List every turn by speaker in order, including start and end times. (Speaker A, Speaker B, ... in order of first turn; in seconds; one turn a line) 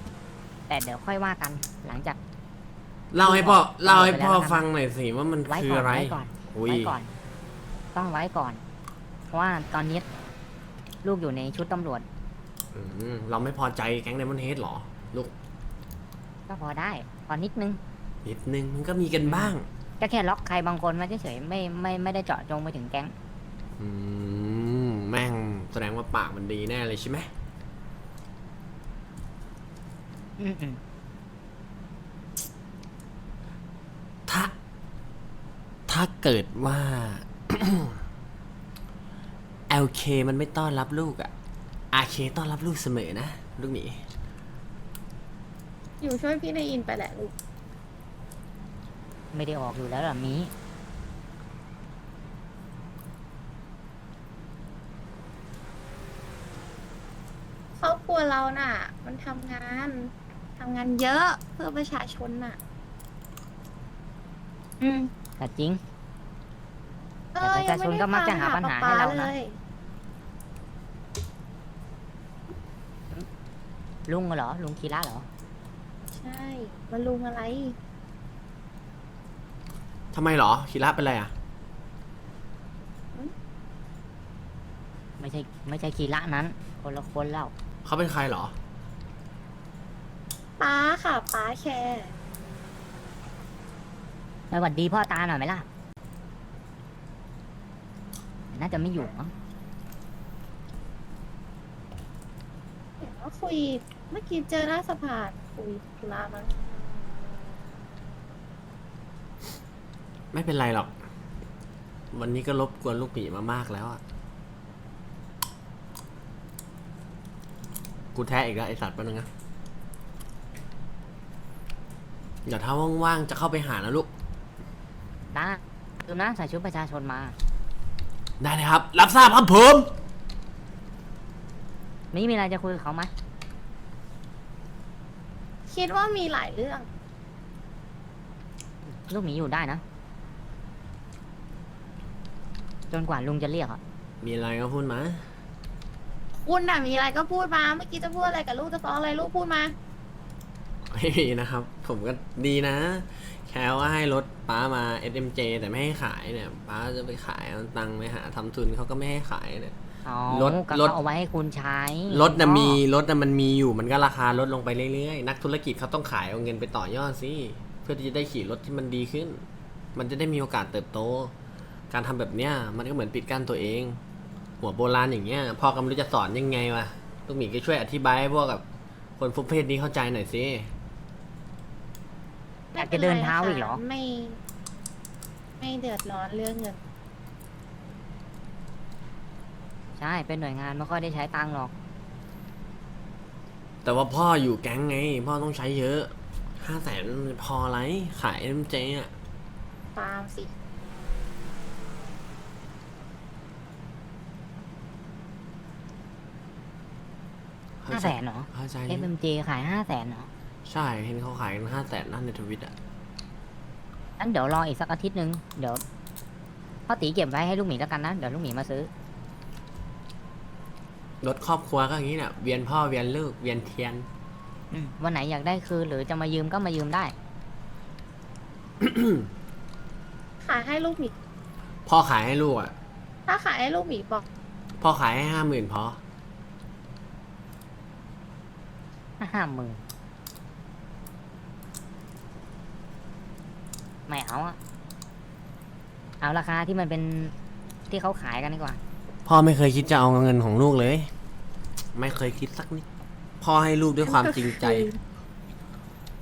Speaker A: 0.7-2.2
Speaker B: 3.1-7.0
Speaker A: 3.2-4.6
Speaker A: 5.5-7.1
Speaker A: 7.9-8.6
Speaker A: 9.3-10.1
Speaker A: 11.0-12.1
Speaker B: 12.7-15.3
Speaker A: 16.5-17.8
Speaker B: 18.2-19.7
Speaker A: 19.2-23.1
Speaker B: 23.8-27.3
Speaker A: 30.4-30.8
Speaker B: 34.3-34.5
Speaker B: 35.9-38.0
Speaker B: 39.7-41.3
Speaker B: 41.9-44.0
Speaker C: 46.0-47.3
Speaker A: 49.3-50.5
Speaker C: 57.8-62.6
Speaker C: 64.8-65.1
Speaker A: 65.4-65.8
Speaker C: 67.3-69.5
Speaker A: 67.4-69.3
Speaker A: 74.1-75.3
Speaker C: 76.1-77.7
Speaker B: 80.1-81.3
Speaker A: 85.2-87.5
Speaker B: 87.8-88.5
Speaker C: 90.6-92.1
Speaker A: 94.5-95.6
Speaker A: 98.5-99.3
Speaker C: 103.0-106.5
Speaker B: 110.3-110.9
Speaker B: 112.1-114.0
Speaker B: 118.1-119.3
Speaker B: 122.5-124.1
Speaker A: 125.3-127.3
Speaker B: 128.4-129.9
Speaker A: 132.1-133.1
Speaker C: 135.7-136.9
Speaker A: 139.1-139.8
Speaker A: 142.9-143.8
Speaker B: 144.2-145.2
Speaker C: 146.3-149.7
Speaker B: 150.9-159.7
Speaker A: 160.1-162.8
Speaker B: 160.3-160.9
Speaker B: 162.1-171.3
Speaker B: 171.9-174.0
Speaker B: 174.6-178.6
Speaker B: 179.2-180.7
Speaker C: 182.7-184.4
Speaker A: 182.8-183.8
Speaker C: 185.6-186.8
Speaker A: 190.0-191.7
Speaker B: 193.8-199.1
Speaker C: 199.9-200.5
Speaker B: 207.8-209.1
Speaker A: 207.9-210.3
Speaker B: 210.6-212.7
Speaker A: 214.2-215.8
Speaker A: 216.9-218.9
Speaker B: 221.2-224.1
Speaker A: 224.7-227.1
Speaker B: 228.8-229.3
Speaker C: 230.4-231.1
Speaker B: 231.9-232.7
Speaker C: 233.3-234.2
Speaker B: 234.8-236.0
Speaker A: 239.2-239.8
Speaker A: 244.1-244.6
Speaker A: 246.2-247.3
Speaker A: 247.9-248.8
Speaker B: 249.2-251.1
Speaker B: 251.9-252.8
Speaker B: 253.4-254.9
Speaker C: 254.1-254.9